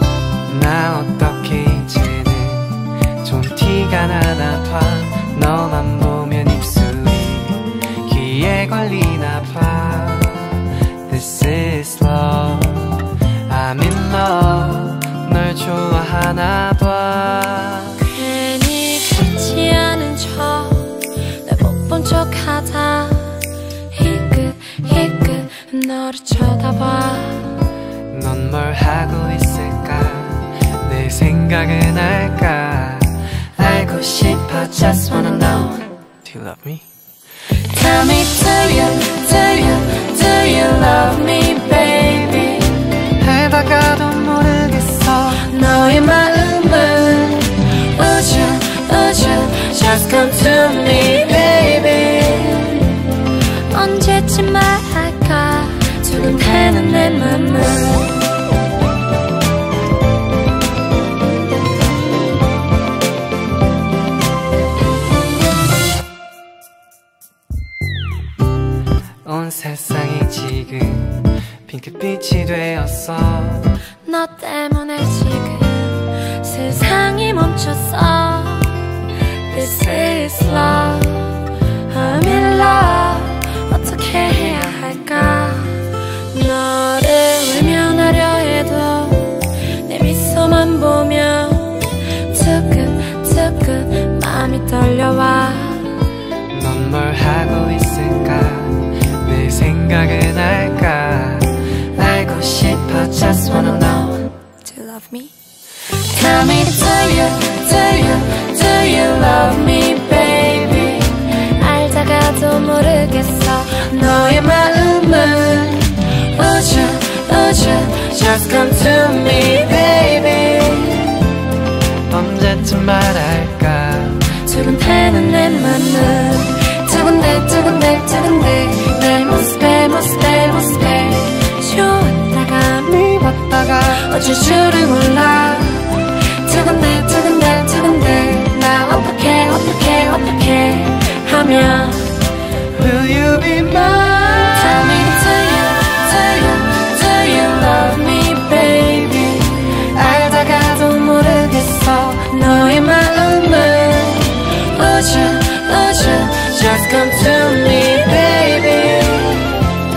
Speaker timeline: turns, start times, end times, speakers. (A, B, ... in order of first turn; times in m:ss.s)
0:00.4-0:18.0 A
0:18.0-0:27.7 B
0:28.1-0:34.5 A
0:33.8-0:35.9 B
0:36.1-0:36.8 A
0:37.5-0:43.1 B
0:43.2-0:45.4 A
0:45.3-0:58.4 B
1:09.2-1:13.8 A
1:14.0-1:36.1 B
1:36.5-1:43.2 A
1:43.1-1:45.3 B
1:45.8-2:01.3 B
2:02.0-2:04.3 A
2:04.2-2:22.4 B
2:22.7-2:24.0 A
2:24.0-2:39.8 B